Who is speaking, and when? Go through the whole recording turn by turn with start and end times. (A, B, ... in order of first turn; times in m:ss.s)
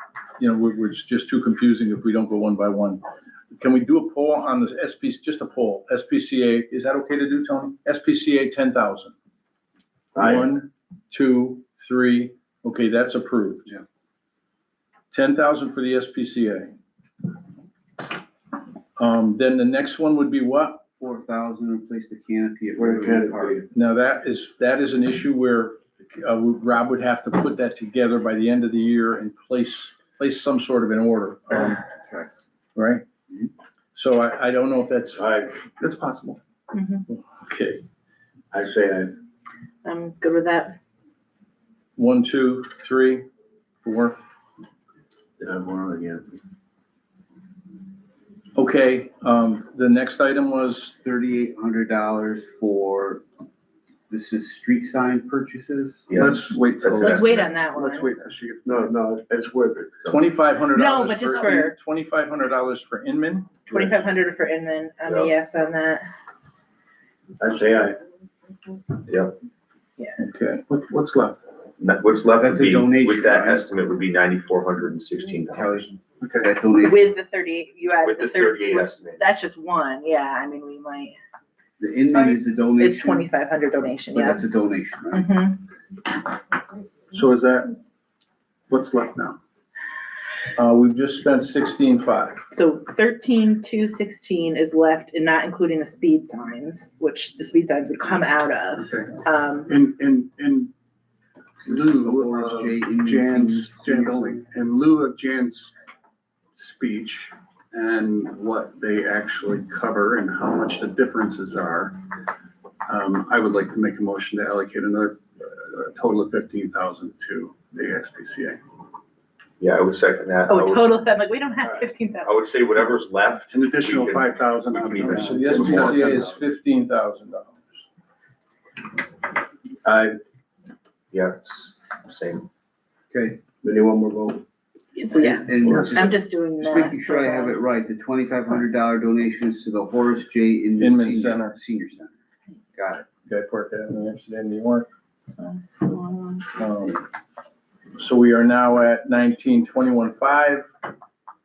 0:00.4-0:03.0 A
0:03.5-0:09.1 A
0:10.1-0:10.5 B
0:10.2-0:13.7 A
0:15.1-0:16.7 A
0:19.0-0:20.8 A
0:21.0-0:23.6 C
0:22.8-0:23.6 B
0:23.7-0:31.8 A
0:31.7-0:32.3 C
0:32.7-0:33.0 A
0:33.9-0:35.2 A
0:35.2-0:35.5 B
0:35.8-0:36.4 D
0:36.7-0:37.0 E
0:37.1-0:37.8 A
0:38.5-0:39.1 B
0:39.8-0:40.8 E
0:42.0-0:43.2 A
0:43.8-0:44.2 A
0:45.4-0:46.2 B
0:48.6-0:50.9 A
0:51.0-0:53.2 C
0:54.1-0:56.2 C
0:56.1-0:57.2 F
0:56.2-0:58.9 D
0:57.0-0:58.1 E
0:58.6-1:00.2 B
1:00.0-1:03.5 A
1:00.7-1:01.7 E
1:03.7-1:06.0 E
1:05.0-1:05.3 F
1:07.4-1:08.0 B
1:09.1-1:09.3 F
1:10.2-1:10.6 A
1:10.7-1:11.4 D
1:11.8-1:15.9 F
1:12.3-1:13.8 C
1:15.5-1:17.0 C
1:16.2-1:16.5 D
1:16.7-1:21.2 E
1:18.0-1:19.2 F
1:21.8-1:23.3 C
1:22.2-1:24.4 E
1:24.1-1:25.3 C
1:25.1-1:25.6 E
1:27.1-1:27.7 D
1:28.7-1:29.4 D
1:30.6-1:32.4 A
1:32.5-1:39.7 E
1:38.8-1:40.7 D
1:41.6-1:44.4 C
1:41.6-1:45.7 D
1:46.5-1:52.0 D
1:52.8-1:58.6 D
1:59.6-2:01.0 F
2:00.5-2:02.4 E
2:02.2-2:06.3 F
2:03.5-2:06.2 D
2:05.2-2:07.6 A
2:09.8-2:10.2 B
2:11.1-2:12.5 F
2:13.1-2:13.4 C
2:13.6-2:14.4 B
2:15.0-2:17.6 E
2:15.1-2:22.1 C
2:20.8-2:21.6 A
2:22.7-2:23.0 C
2:23.2-2:24.9 A
2:25.4-2:26.5 E
2:26.6-2:27.0 A
2:28.0-2:30.7 A